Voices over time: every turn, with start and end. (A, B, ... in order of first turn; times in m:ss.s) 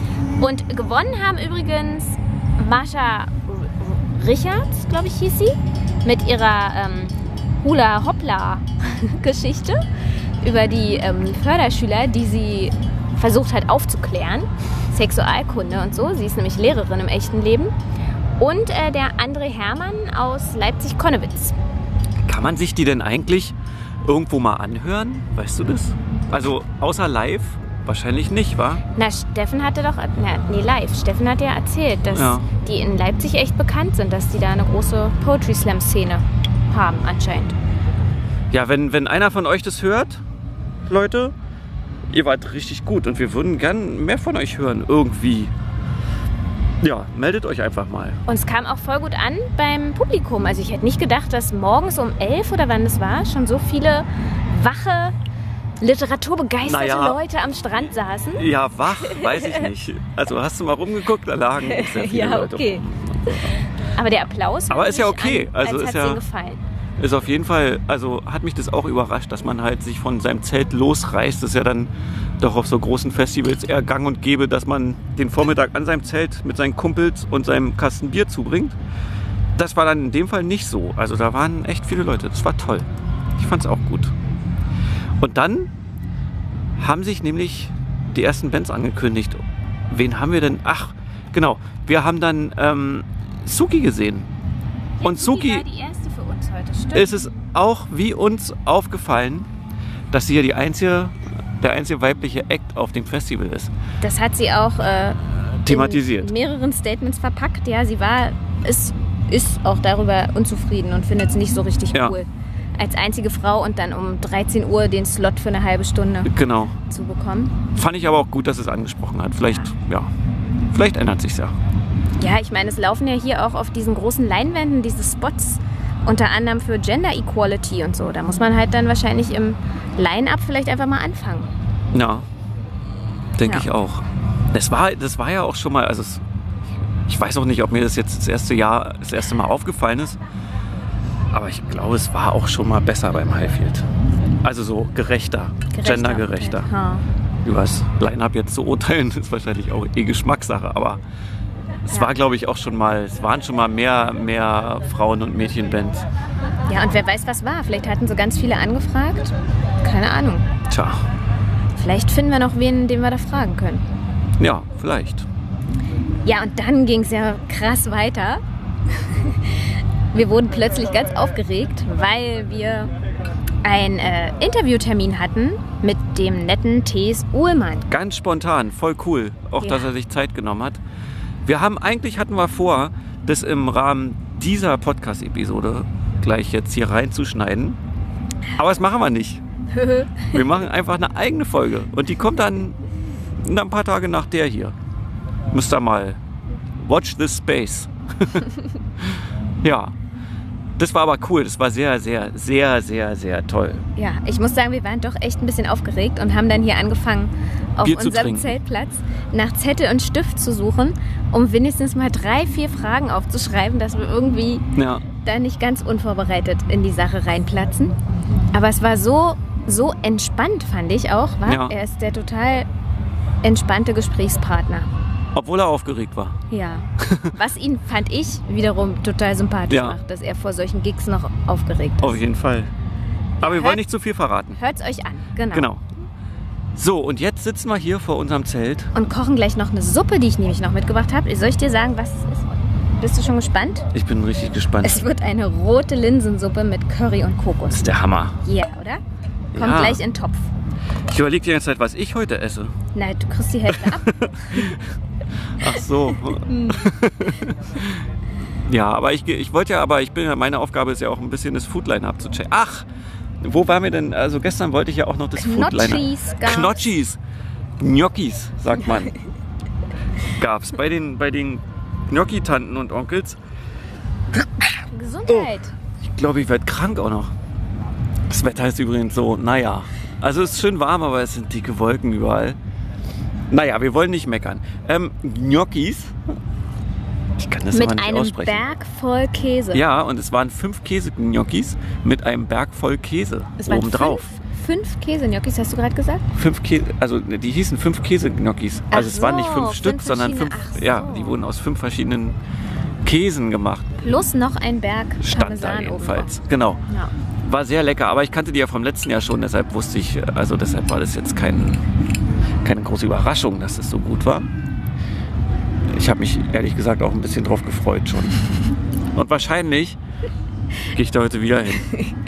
0:00.4-0:09.8 A
0:10.4-0:17.7 A
0:18.4-0:21.6 A
0:22.2-0:28.8 B
0:29.0-0:37.6 A
0:32.1-0:32.5 B
0:38.5-0:40.2 B
0:40.9-0:41.3 B
0:42.1-0:45.5 B
0:46.8-0:48.2 B
0:48.3-0:55.2 A
0:55.8-0:58.4 A
0:56.6-0:57.2 B
0:58.4-1:03.6 B
0:59.0-0:59.7 A
1:01.6-1:03.3 A
1:04.0-1:06.6 A
1:04.7-1:06.2 B
1:07.0-1:18.8 B
1:19.6-1:24.1 B
1:25.2-1:25.7 B
1:26.8-1:34.3 B
1:35.0-1:37.2 A
1:35.0-1:35.7 B
1:36.9-1:39.5 B
1:40.1-1:43.7 B
1:44.0-1:56.3 A
1:45.6-1:46.3 B
1:56.2-1:56.8 B
1:56.9-1:57.6 A
1:57.8-2:00.1 B
2:00.7-2:01.5 B
2:02.2-2:11.5 A
2:11.9-2:12.3 B
2:13.4-2:16.2 B
2:17.1-2:20.2 B
2:21.3-2:23.9 B
2:24.4-2:26.7 B
2:25.7-2:27.0 A
2:27.4-2:31.0 B
2:31.9-2:36.1 B
2:36.7-2:40.5 A
2:40.7-2:41.0 B
2:41.8-2:43.8 A
2:44.4-2:45.3 B
2:46.2-2:48.4 A
2:49.0-2:49.6 A
2:50.1-2:52.9 A
2:53.6-2:57.9 A
2:57.9-3:00.8 B
2:59.6-2:59.9 A
3:01.5-3:07.8 B
3:08.6-3:09.4 B
3:09.7-3:10.4 A
3:10.2-3:12.8 B
3:13.4-3:14.7 B
3:15.5-3:16.2 B
3:16.8-3:18.5 B
3:19.6-3:19.9 B
3:20.8-3:23.8 B
3:24.0-3:34.7 A
3:27.8-3:28.6 B
3:34.8-3:35.0 B
3:35.2-3:38.0 A
3:38.5-3:42.7 A
3:41.5-3:41.7 B
3:43.4-3:44.9 A
3:45.4-3:46.4 B
3:46.5-3:52.2 A
3:47.0-3:47.3 B
3:49.7-3:50.0 B
3:52.0-3:52.7 B
3:53.4-3:53.8 A
3:53.4-3:54.6 B
3:54.6-3:55.7 A
3:55.5-3:55.8 B
3:56.8-3:58.9 B
3:59.0-4:03.9 A
4:03.9-4:05.0 B
4:04.8-4:07.9 A
4:07.7-4:08.4 B
4:08.4-4:09.0 A
4:09.5-4:10.0 B
4:09.5-4:10.5 A
4:11.1-4:12.7 B
4:13.0-4:14.7 A
4:13.8-4:14.8 B
4:15.6-4:18.0 B
4:16.4-4:16.8 A
4:18.7-4:22.9 B
4:23.4-4:27.2 B
4:25.4-4:27.0 A
4:27.8-4:29.2 B
4:30.4-4:33.4 B
4:34.9-4:35.7 A
4:35.3-4:37.3 B
4:38.3-4:42.6 B
4:43.5-4:46.2 B
4:47.4-4:48.6 B
4:47.7-4:49.8 A
4:49.7-4:54.3 B
4:53.6-4:56.2 A
4:56.4-5:02.4 B
4:58.9-5:01.4 A
5:03.0-5:04.0 B
5:04.0-5:06.4 A
5:05.2-5:06.8 B
5:07.4-5:11.8 B
5:12.6-5:14.5 B
5:15.9-5:18.4 B
5:19.2-5:20.0 B
5:20.9-5:22.0 B